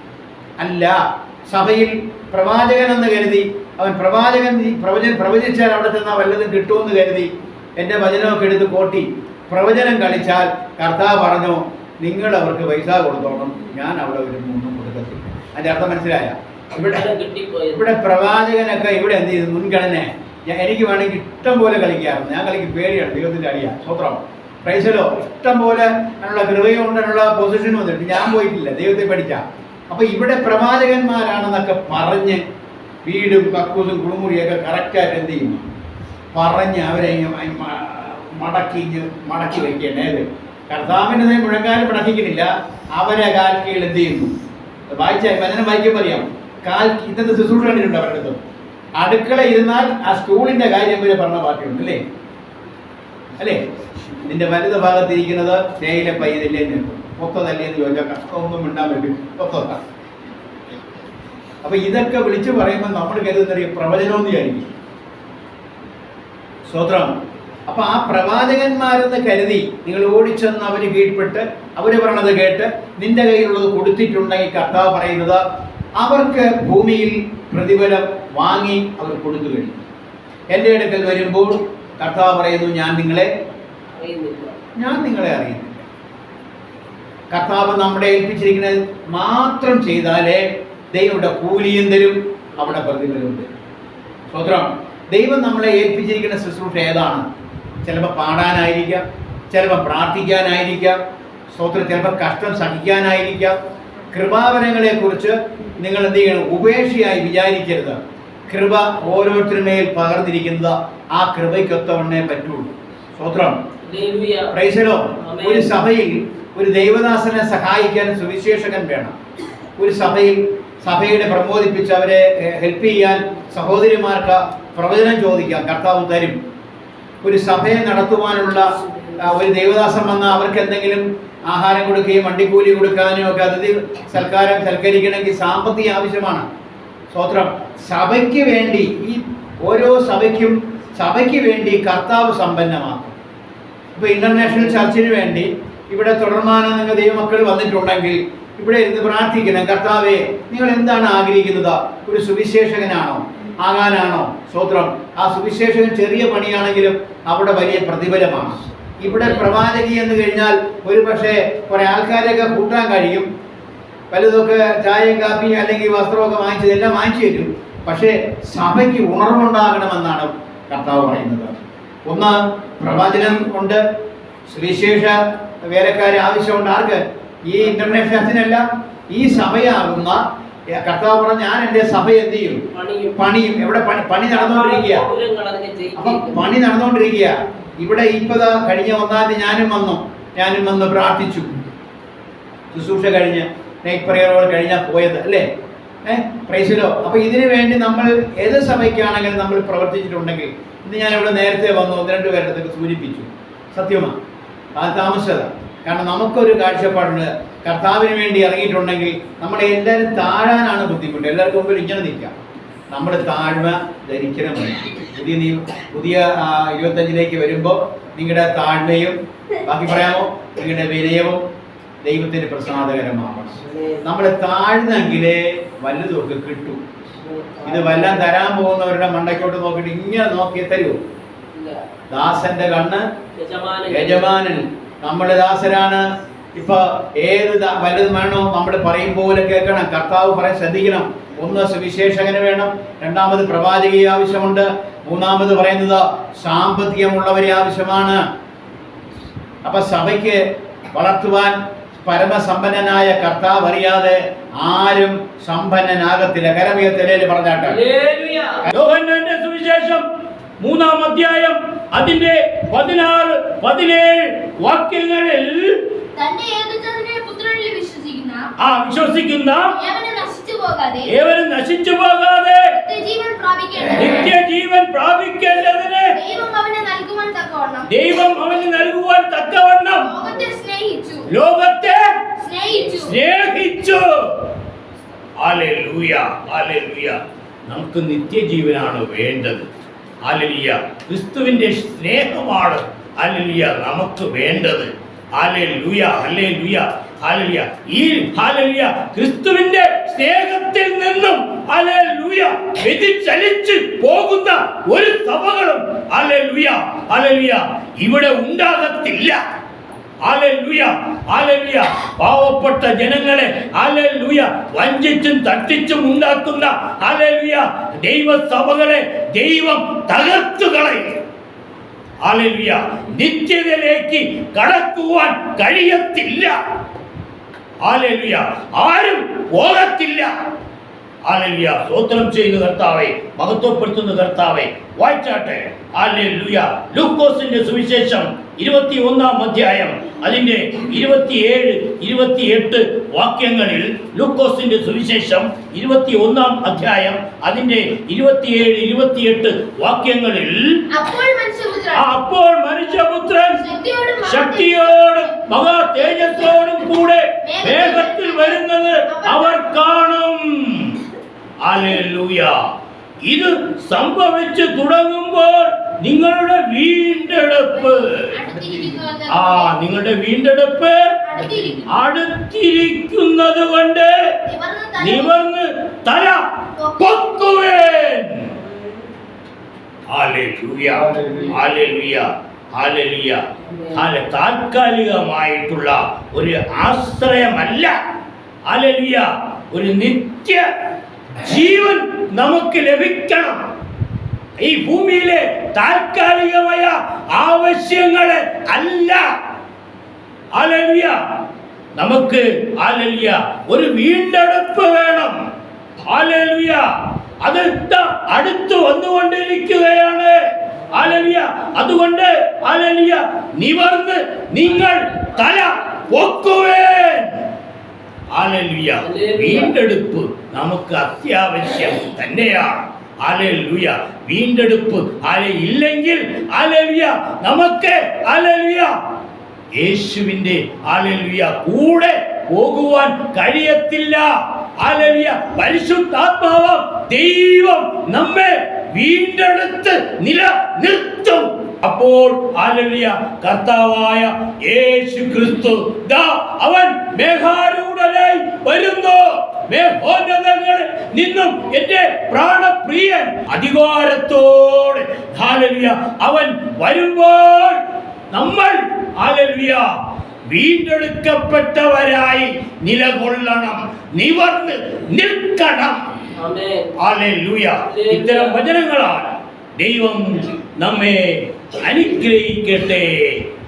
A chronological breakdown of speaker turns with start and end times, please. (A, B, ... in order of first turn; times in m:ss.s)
0:00.6-0:17.0 A
0:16.8-0:17.9 B
0:17.7-0:32.4 A
0:33.0-0:35.6 A
0:36.3-0:44.3 A
0:44.9-0:48.4 A
0:49.0-0:52.0 A
0:54.2-0:59.8 A
1:01.6-1:04.7 A
1:06.6-1:07.1 A
1:07.7-1:15.4 A
1:16.0-1:19.8 A
1:20.5-1:23.3 A
1:23.9-1:24.6 B
1:24.8-1:25.8 A
1:27.3-1:33.5 A
1:34.3-1:37.3 A
1:37.8-1:41.0 A
1:41.5-1:43.6 A
1:44.1-1:53.6 A
1:53.8-1:54.5 B
1:54.5-1:59.1 A
1:55.3-1:55.7 B
1:59.8-2:06.4 A
2:07.2-2:16.4 A
2:17.1-2:23.1 A
2:23.9-2:43.3 A
2:39.0-2:39.4 B
2:44.1-2:53.8 A
2:54.5-3:00.2 A
2:57.7-2:58.0 B
3:00.7-3:02.6 A
3:02.7-3:03.2 B
3:03.2-3:05.0 A
3:04.3-3:06.4 B
3:06.0-3:11.5 A
3:12.7-3:15.4 A
3:16.0-3:24.2 A
3:24.7-3:32.3 A
3:32.9-3:41.4 A
3:42.0-3:46.8 A
3:43.6-3:44.0 B
3:47.2-3:48.2 B
3:47.6-3:51.0 A
3:51.5-3:51.8 B
3:52.1-3:53.0 A
3:53.4-3:54.3 B
3:53.9-4:08.2 A
4:09.6-4:10.4 A
4:10.9-4:17.8 A
4:17.6-4:20.0 C
4:20.6-4:25.7 C
4:26.2-4:28.5 D
4:28.6-4:29.7 C
4:29.7-4:31.1 D
4:31.1-4:32.6 C
4:32.7-4:34.3 D
4:34.0-4:36.1 C
4:36.1-4:38.0 D
4:37.9-4:40.1 C
4:40.0-4:41.3 D
4:41.3-4:42.0 C
4:42.4-4:43.1 D
4:42.8-4:44.1 C
4:45.4-4:49.7 C
4:50.2-5:09.4 C
5:10.2-5:21.2 C
5:22.2-5:26.6 C
5:27.8-5:30.3 C
5:31.2-5:50.6 C
5:50.9-5:52.1 D
5:51.9-5:53.6 C
5:53.5-5:55.4 D
5:54.2-6:01.0 C
5:56.0-5:56.3 D
5:57.4-5:59.8 D
6:01.6-6:02.5 C
6:03.2-6:08.3 C
6:07.7-6:09.8 D
6:09.3-6:11.0 C
6:11.2-6:11.9 D
6:11.9-6:14.1 C
6:14.4-6:15.4 D
6:15.0-6:16.4 C
6:16.8-6:17.4 D
6:17.0-6:18.4 C
6:20.1-6:23.4 C
6:23.7-6:24.0 B
6:23.9-6:28.0 C
6:28.7-6:30.6 C
6:31.4-6:33.6 C
6:34.6-6:39.2 C
6:40.6-6:41.2 C
6:42.0-6:45.4 C
6:46.1-6:46.8 C
6:47.4-6:50.3 C
6:50.9-6:57.3 C
6:58.3-7:08.9 C
6:59.0-6:59.7 B
7:09.8-7:14.3 C
7:14.8-7:37.8 C
7:38.3-7:39.8 C
7:40.5-7:46.0 C
7:46.4-7:46.9 B
7:47.0-7:53.4 C
7:47.9-7:48.6 B